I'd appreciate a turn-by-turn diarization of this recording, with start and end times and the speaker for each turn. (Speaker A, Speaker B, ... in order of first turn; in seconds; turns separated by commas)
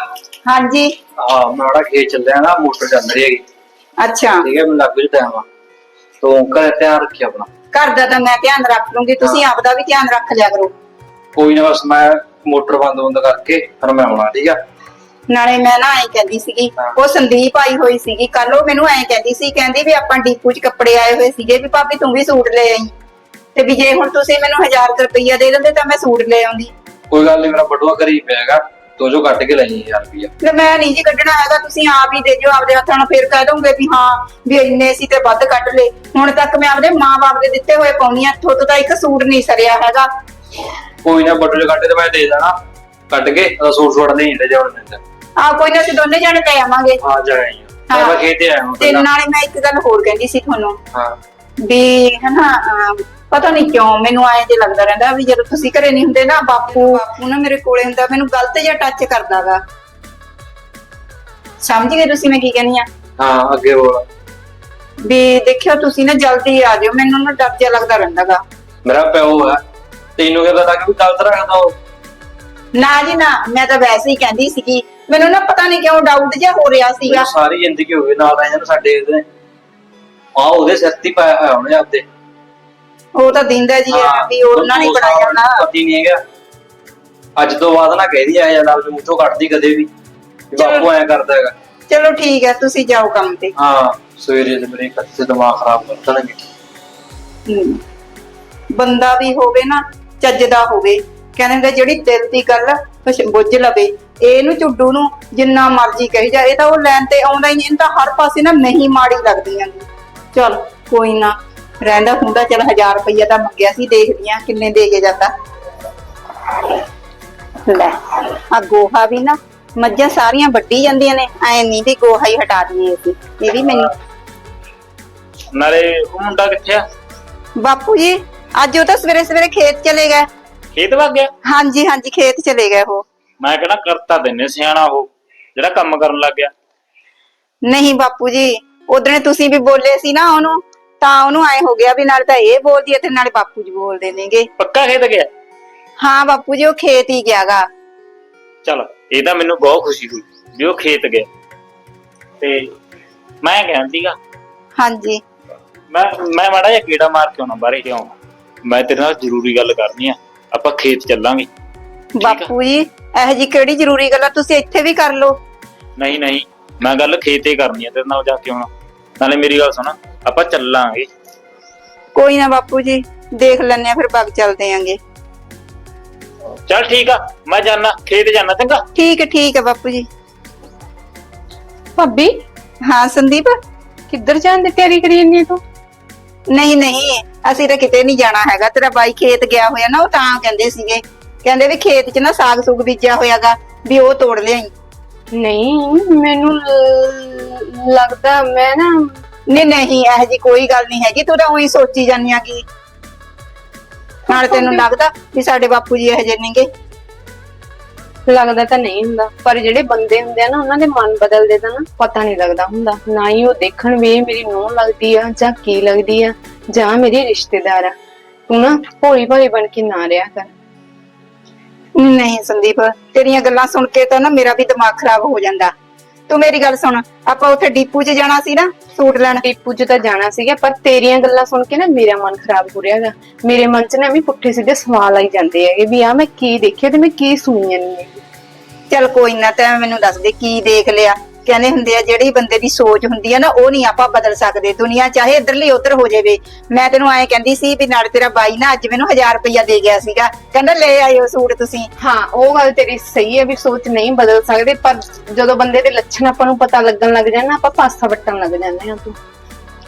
Speaker A: 0.5-0.9, Speaker B: 1.2-3.4, Speaker A: 4.0-4.5, Speaker B: 4.4-5.5, Speaker B: 6.2-7.5, Speaker A: 7.7-10.7, Speaker B: 11.3-14.6, Speaker A: 15.3-22.9, Speaker A: 23.6-26.7, Speaker B: 27.1-30.3, Speaker A: 30.4-40.1, Speaker B: 41.0-42.5, Speaker B: 43.1-45.0, Speaker A: 45.4-47.0, Speaker B: 47.0-49.1, Speaker A: 47.9-48.2, Speaker A: 48.8-50.8, Speaker A: 51.6-59.6, Speaker A: 61.6-62.9, Speaker B: 63.2-64.0, Speaker A: 65.0-68.4, Speaker B: 68.8-69.6, Speaker B: 70.2-71.8, Speaker A: 72.8-77.3, Speaker B: 77.1-79.2, Speaker B: 80.4-82.0, Speaker A: 83.2-85.7, Speaker B: 83.9-86.2, Speaker B: 87.4-89.9, Speaker B: 90.5-91.5, Speaker A: 90.6-90.9, Speaker A: 91.9-93.5, Speaker B: 93.6-96.4, Speaker A: 97.5-97.8, Speaker A: 98.7-115.3, Speaker A: 117.7-123.9, Speaker C: 125.5-126.8, Speaker A: 127.6-130.3, Speaker C: 130.8-131.3, Speaker A: 131.5-133.1, Speaker C: 133.4-136.5, Speaker A: 137.7-144.5, Speaker C: 144.6-145.3, Speaker A: 146.0-147.7, Speaker C: 148.7-151.3, Speaker C: 152.4-152.7, Speaker C: 153.4-154.2, Speaker A: 154.8-155.2, Speaker C: 155.9-158.1, Speaker C: 158.6-161.5, Speaker A: 162.2-165.4, Speaker C: 162.2-162.5, Speaker C: 166.0-168.7, Speaker C: 169.2-171.1, Speaker A: 172.2-175.0, Speaker C: 176.7-178.8, Speaker A: 179.0-180.1, Speaker D: 182.0-182.4, Speaker A: 182.8-183.5, Speaker D: 184.1-185.6, Speaker A: 186.5-194.7, Speaker D: 195.3-199.1, Speaker A: 199.5-202.7, Speaker A: 204.3-206.7, Speaker D: 204.3-204.8, Speaker D: 208.3-217.9, Speaker D: 218.5-220.5, Speaker A: 222.0-225.7, Speaker A: 226.3-229.4, Speaker D: 229.4-238.2, Speaker A: 238.9-251.9, Speaker D: 252.0-259.2